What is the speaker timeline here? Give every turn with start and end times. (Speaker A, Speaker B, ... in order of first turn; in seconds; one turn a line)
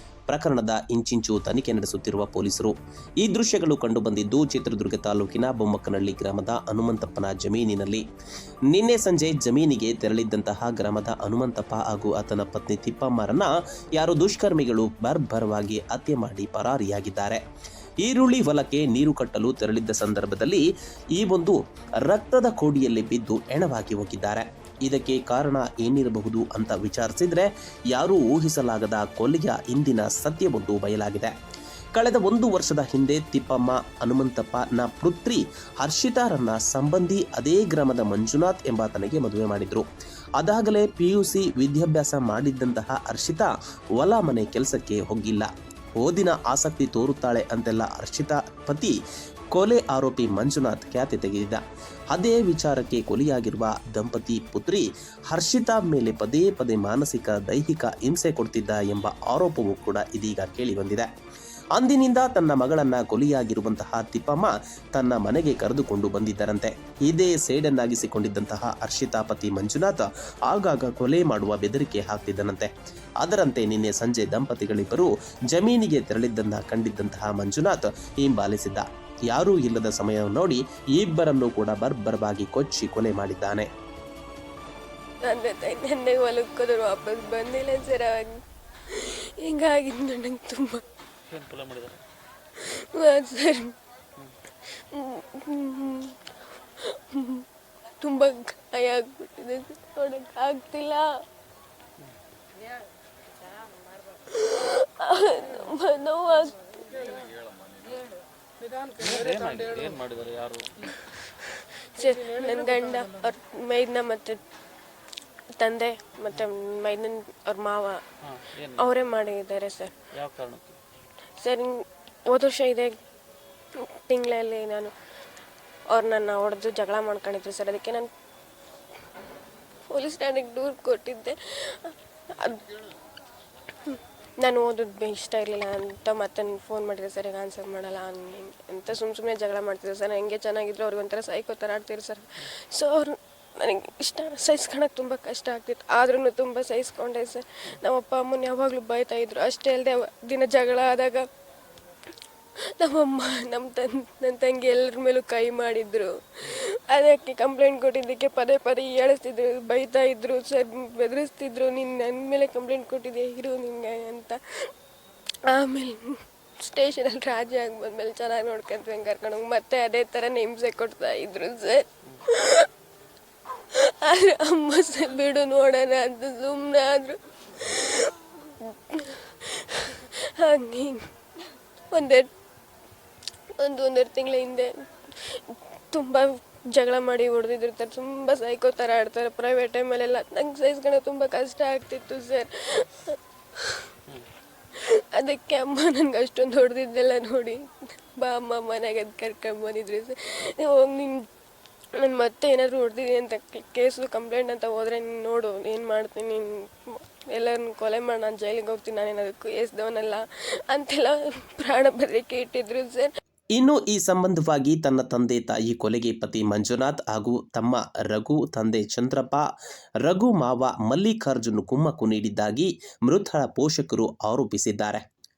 Speaker A: 0.3-8.0
Speaker A: 8.7-17.4
Speaker A: 18.0-31.3
Speaker A: 31.9-39.8
Speaker A: 40.4-49.0
Speaker A: 49.5-61.1
Speaker A: 61.8-72.7
Speaker A: 73.2-83.7
Speaker B: 85.2-88.4
Speaker B: 88.9-90.8
Speaker C: 91.3-92.0
Speaker B: 92.5-93.7
Speaker B: 94.9-96.2
Speaker B: 96.8-97.5
Speaker B: 98.0-101.1
Speaker B: 104.3-107.1
Speaker C: 109.0-111.0
Speaker B: 111.8-114.4
Speaker B: 115.6-118.0
Speaker C: 118.2-118.9
Speaker B: 118.8-119.9
Speaker C: 120.1-120.8
Speaker B: 121.4-123.0
Speaker B: 123.8-124.9
Speaker B: 125.9-128.1
Speaker B: 129.9-132.6
Speaker B: 133.8-151.2
Speaker B: 152.8-164.7
Speaker B: 165.5-172.7
Speaker B: 173.7-181.1
Speaker B: 181.9-182.3
Speaker B: 183.6-193.9
Speaker B: 194.7-201.3
Speaker B: 202.0-213.1
Speaker A: 213.6-219.4
Speaker A: 220.1-225.0